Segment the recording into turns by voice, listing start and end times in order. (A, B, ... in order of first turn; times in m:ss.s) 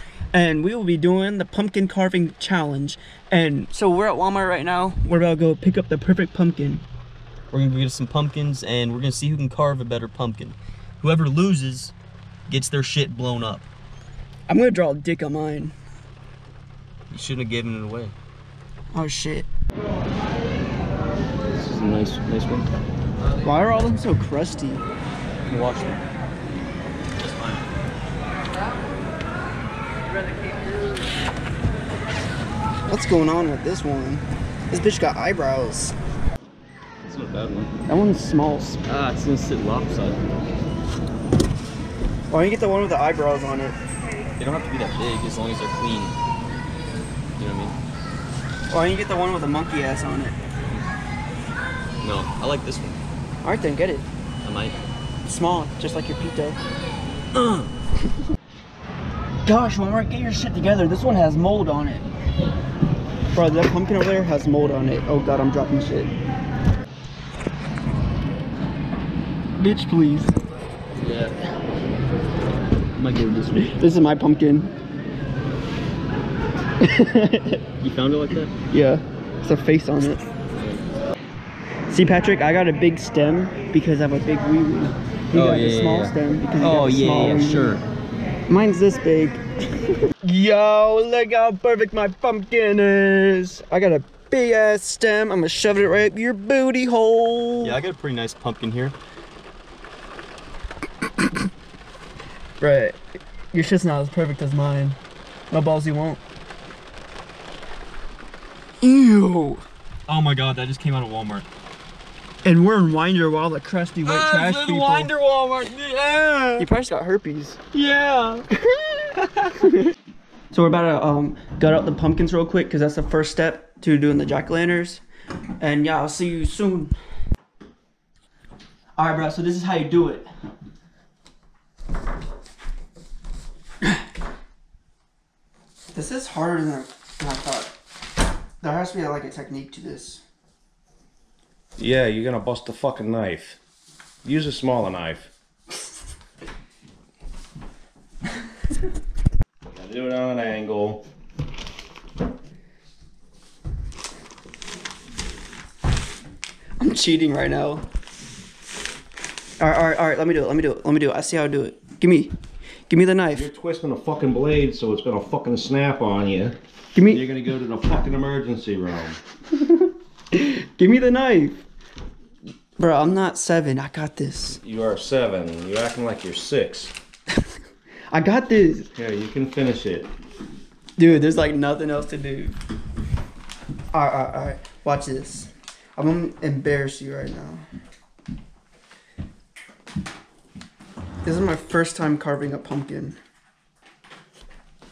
0:00.3-0:06.8 A
0:07.5-0:11.9 B
0:12.5-0:13.7 B
0:14.5-0:15.7 A
0:17.1-0:18.1 B
0:18.9-0:19.5 A
0:21.5-0:22.7 B
0:23.4-0:24.8 A
0:25.5-0:26.0 B
0:27.2-0:27.6 B
0:32.9-0:36.0 A
0:37.0-0:37.7 B
0:37.8-0:38.8 A
0:38.8-0:40.2 B
0:42.3-0:43.8 A
0:44.4-0:46.2 B
0:47.4-0:47.8 B
0:48.7-0:50.4 A
0:52.0-0:53.0 B
0:53.4-0:54.1 A
0:54.4-0:54.8 B
0:55.2-0:56.6 A
0:57.3-0:57.7 B
0:59.4-1:02.1 A
1:03.3-1:06.1 A
1:09.6-1:10.3 A
1:11.0-1:11.4 B
1:12.9-1:13.8 B
1:13.6-1:14.7 A
1:16.8-1:17.6 A
1:17.8-1:18.5 B
1:18.7-1:20.3 A
1:21.9-1:27.8 A
1:25.3-1:27.8 B
1:28.5-1:29.4 A
1:30.2-1:37.8 A
1:37.6-1:39.0 B
1:42.6-1:43.0 A
1:43.5-1:45.0 A
1:45.5-1:46.2 A
1:48.8-1:49.6 A
1:50.1-1:51.4 B
1:52.4-1:55.1 A
1:54.0-1:56.7 B
1:56.6-1:57.6 A
1:57.7-1:58.7 B
1:59.3-1:59.8 A
2:00.5-2:05.0 A
2:05.6-2:06.9 A
2:09.0-2:10.3 A
2:15.9-2:17.7 A
2:18.6-2:20.2 A
2:21.8-2:23.6 C
2:24.2-2:25.3 C
2:29.7-2:31.0 C
2:36.8-2:37.8 A
2:39.6-2:42.3 A
2:42.9-2:43.5 A
2:43.3-2:49.2 C
2:46.9-2:47.2 A
2:49.5-2:51.6 A
2:52.8-2:54.6 A
2:54.6-2:56.9 C
2:58.1-2:58.9 A
2:58.9-3:00.1 C
3:01.0-3:02.6 A
3:03.9-3:07.6 A
3:11.2-3:13.2 A